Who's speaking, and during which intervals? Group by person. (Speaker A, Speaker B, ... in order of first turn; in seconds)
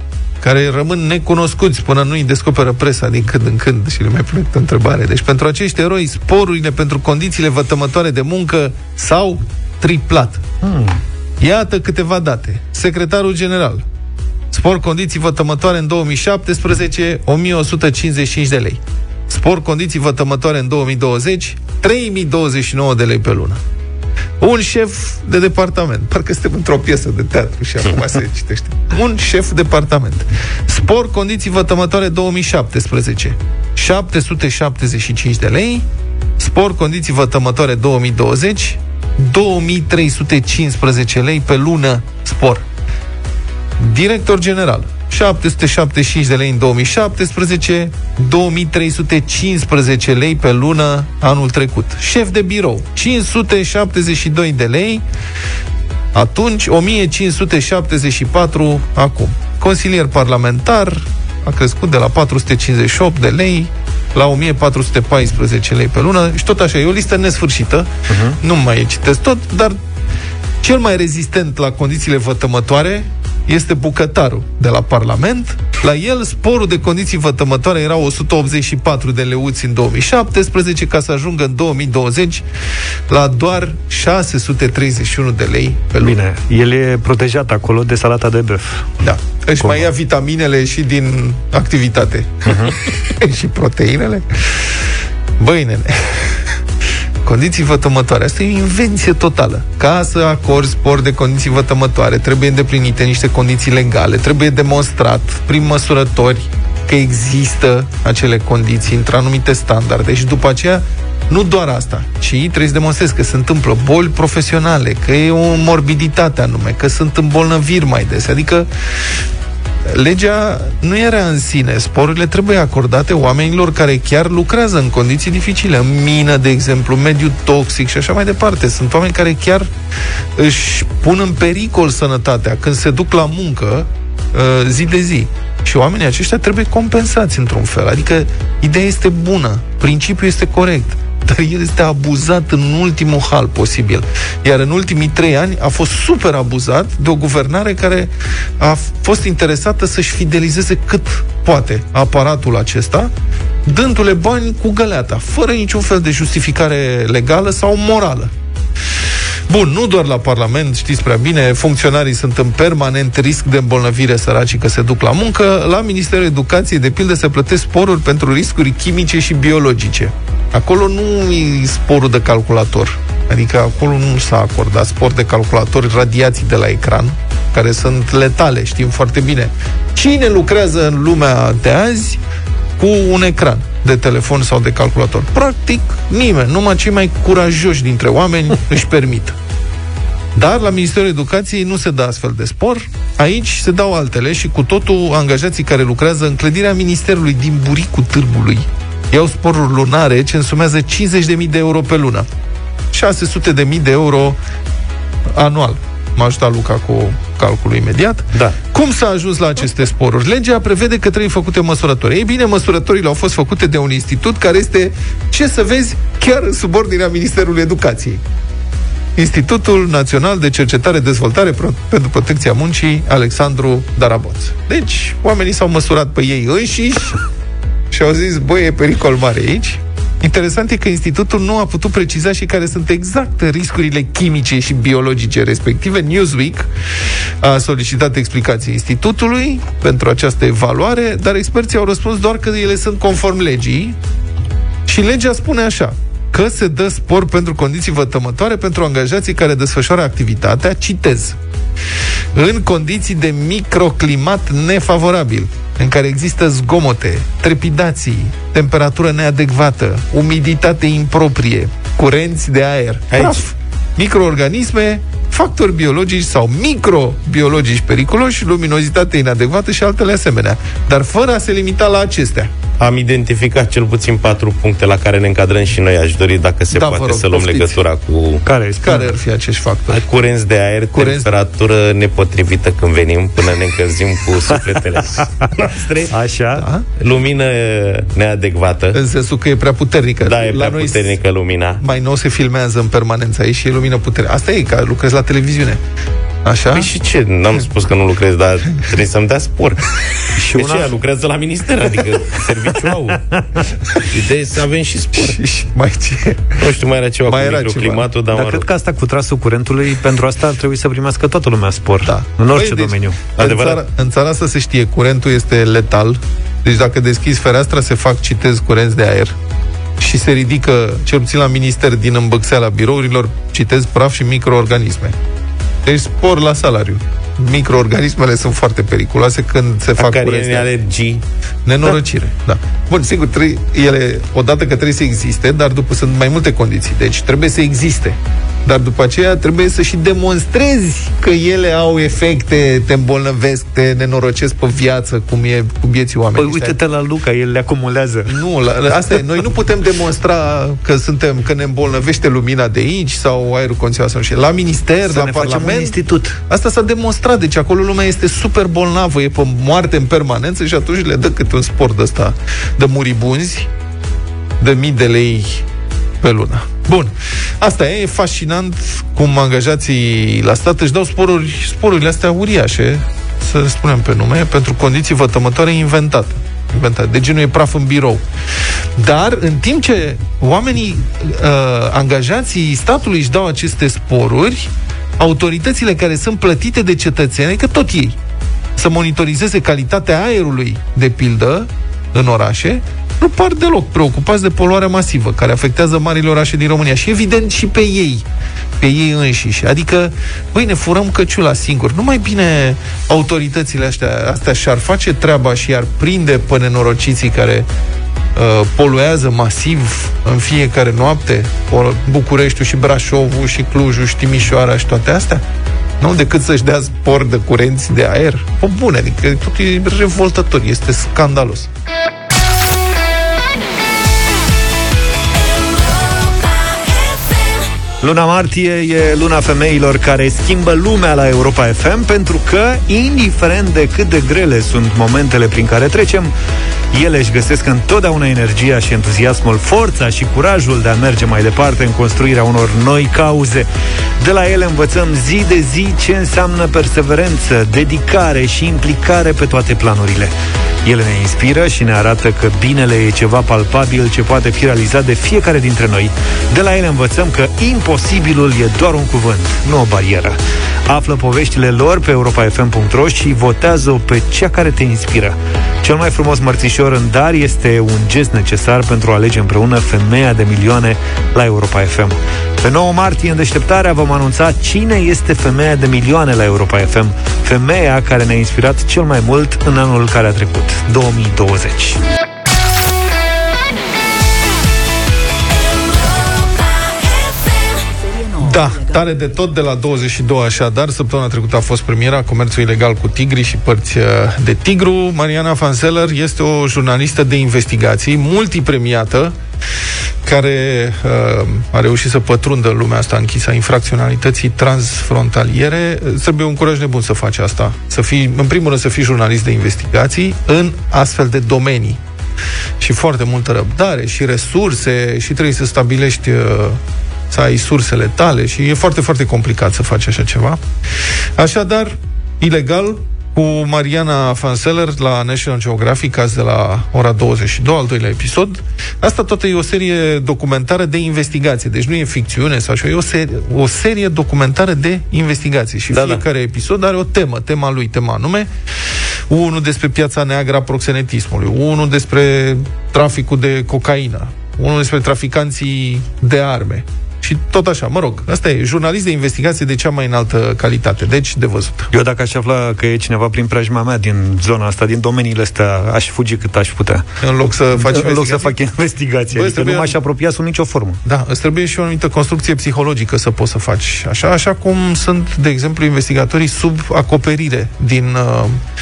Speaker A: 0.4-10.4, 11.4-13.8, 14.5-23.6, 24.4-35.9, 36.4-42.6, 43.8-55.0, 56.1-69.8, 70.6-82.4, 83.1-86.2, 89.0-94.8, 95.4-96.4, 97.2-118.7, 119.8-129.7, 130.3-153.1, 153.6-158.3, 159.5-182.2, 182.8-189.4, 190.3-202.3, 202.9-204.4, 205.3-218.2, 219.2-227.2, 227.9-236.7, 237.4-244.0, 244.9-251.4, 252.3-272.5, 276.7-277.8, 278.8-280.0, 280.9-281.3, 286.6-286.9, 288.9-291.1, 291.8-295.8, 296.4-296.9, 305.1-306.6, 307.3-308.1, 312.0-319.4, 320.0-325.1, 325.8-330.7, 331.6-346.8, 348.3-356.0, 356.5-363.7, 364.6-365.6, 366.2-378.2, 379.0-388.2, 388.8-398.2, 398.8-407.7, 408.3-415.4, 416.0-421.7, 488.4-499.4, 500.2-512.0, 512.8-520.6, 521.4-538.5, 539.3-551.9, 557.2-558.6, 559.3-560.0, 561.0-568.6
Speaker B: 10.6-11.0, 68.1-68.4, 86.0-88.9, 89.6-89.9, 92.5-92.8, 278.4-279.1, 286.1-286.7, 300.4-300.9, 308.3-313.2, 346.4-348.4, 355.1-356.4, 428.0-436.3, 436.9-443.7, 444.2-450.3, 450.8-482.0, 551.9-557.0, 557.8-561.0
Speaker C: 263.1-263.4, 272.8-278.4, 279.9-286.1, 287.0-289.0, 290.2-291.8, 296.7-299.9, 300.5-303.3, 304.0-305.4, 306.6-308.6, 313.4-313.8, 330.0-331.2, 535.9-536.2